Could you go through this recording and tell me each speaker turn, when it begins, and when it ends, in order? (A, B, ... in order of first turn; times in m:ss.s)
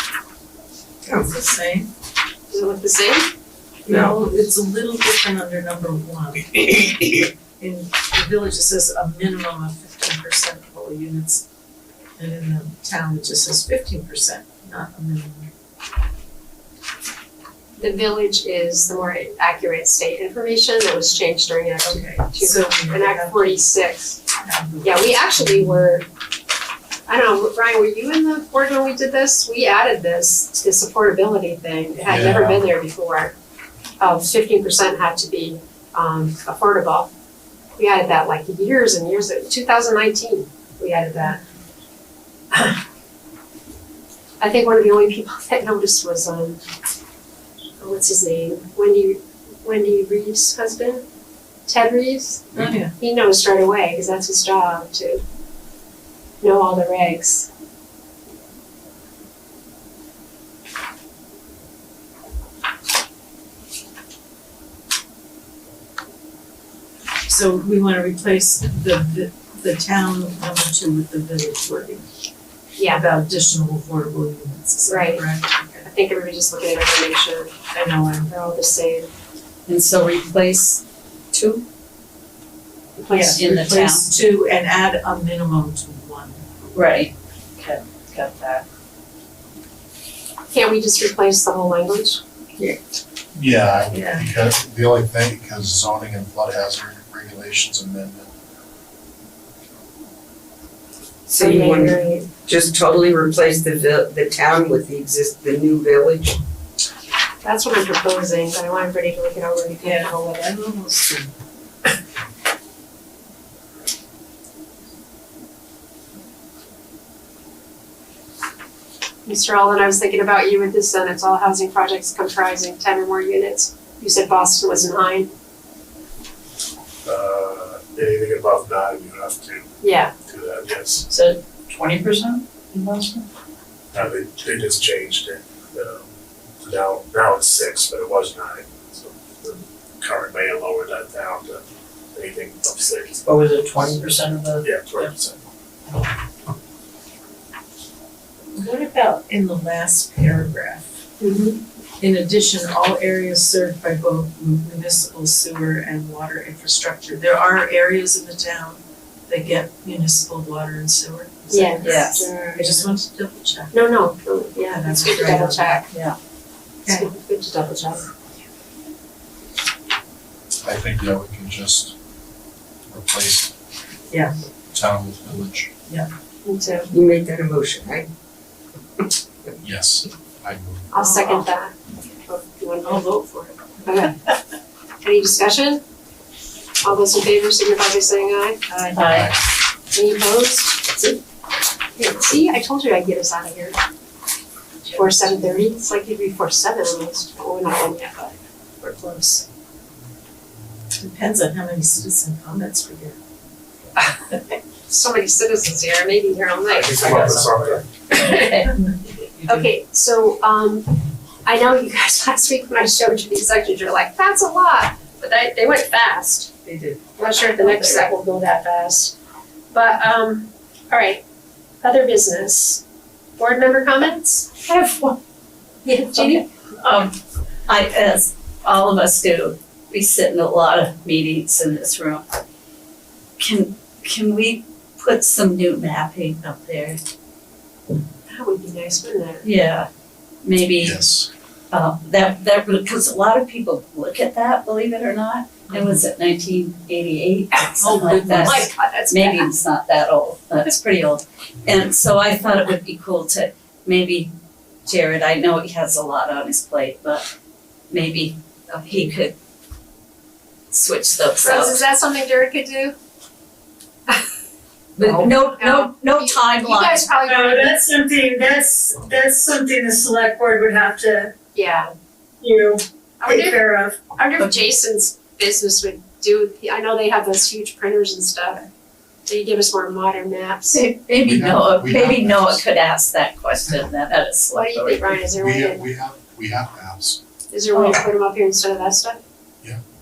0:01.0-0:01.3 A
0:01.2-0:01.9 B
0:02.5-0:03.3 C
0:03.8-0:11.4 B
0:03.9-0:04.1 A
0:12.2-0:15.5 B
0:17.8-0:24.2 C
0:21.8-0:23.8 B
0:24.3-0:25.9 B
0:24.8-0:26.0 C
0:27.1-0:33.3 C
0:32.0-0:32.7 D
0:34.0-0:37.1 C
0:37.8-0:41.4 C
0:42.5-0:42.8 C
0:44.4-0:46.6 C
0:47.8-0:51.0 C
0:51.7-0:55.2 C
0:52.6-0:52.9 B
0:56.4-0:57.5 C
1:07.3-1:12.1 B
1:12.8-1:13.0 C
1:12.9-1:15.9 B
1:14.9-1:15.2 C
1:15.8-1:17.6 C
1:17.7-1:18.3 B
1:18.2-1:19.1 C
1:19.7-1:21.6 E
1:23.0-1:23.3 C
1:23.1-1:26.4 B
1:23.1-1:24.1 E
1:26.7-1:28.6 E
1:30.5-1:32.2 C
1:33.3-1:38.3 D
1:33.9-1:34.2 B
1:41.3-1:46.4 A
1:41.4-1:42.3 C
1:47.4-1:50.5 C
1:49.7-1:51.3 B
1:59.2-2:05.3 C
2:07.0-2:09.7 F
2:09.8-2:10.1 C
2:10.2-2:11.0 F
2:11.1-2:13.2 G
2:13.9-2:16.1 F
2:16.6-2:23.2 F
2:23.2-2:24.0 A
2:23.3-2:25.1 G
2:24.6-2:25.4 F
2:28.5-2:31.0 B
2:31.2-2:31.6 C
2:32.0-2:43.7 B
2:41.5-2:42.9 C
2:41.8-2:42.3 E
2:43.7-2:45.9 C
2:44.6-2:45.9 B
2:45.9-2:46.2 E
2:46.9-2:48.0 C
2:50.6-2:51.9 D
2:52.9-2:53.5 D
2:54.1-2:54.4 B
2:54.7-2:55.7 D
2:56.4-2:56.9 C
2:56.9-2:58.1 A
2:59.6-3:00.9 D
3:00.9-3:01.7 C
3:01.0-3:01.4 B
3:02.3-3:03.1 C
3:02.8-3:03.8 B
3:03.8-3:04.2 C
3:05.0-3:05.8 C
3:06.8-3:08.7 C
3:08.7-3:09.0 B
3:08.9-3:09.3 E
3:09.1-3:09.4 D
3:09.9-3:11.2 C
3:12.0-3:13.8 C
3:14.8-3:15.4 E
3:14.9-3:19.5 C
3:21.0-3:23.2 B
3:24.9-3:28.7 C
3:26.7-3:27.9 F
3:28.2-3:28.6 E
3:28.8-3:29.7 B
3:29.4-3:36.5 C
3:36.6-3:37.0 B
3:37.2-3:39.1 C
3:37.5-3:38.1 E
3:39.7-3:41.2 C
3:41.8-3:42.8 C
3:43.4-3:44.5 C
3:44.6-3:45.2 E
3:45.8-3:46.4 C
3:46.1-3:47.1 E
3:47.7-3:52.2 E
3:53.4-3:57.0 E
3:58.3-3:59.5 C
3:59.4-3:59.9 E
4:00.4-4:01.0 E
4:00.8-4:01.3 D
4:01.7-4:14.3 E
4:07.6-4:09.5 C
4:07.8-4:08.7 B
4:14.8-4:17.2 E
4:17.9-4:19.3 E
4:20.7-4:21.8 E
4:21.4-4:22.9 C
4:25.0-4:27.1 E
4:25.0-4:27.8 C
4:27.2-4:31.3 H
4:31.5-4:31.9 C
4:32.4-4:34.0 H
4:33.2-4:38.7 C
4:39.3-4:40.8 C
4:40.7-4:45.2 E
4:41.2-4:42.6 D
4:44.5-4:45.8 C
4:45.4-4:47.2 D
4:47.5-4:49.2 C
4:47.7-4:48.0 E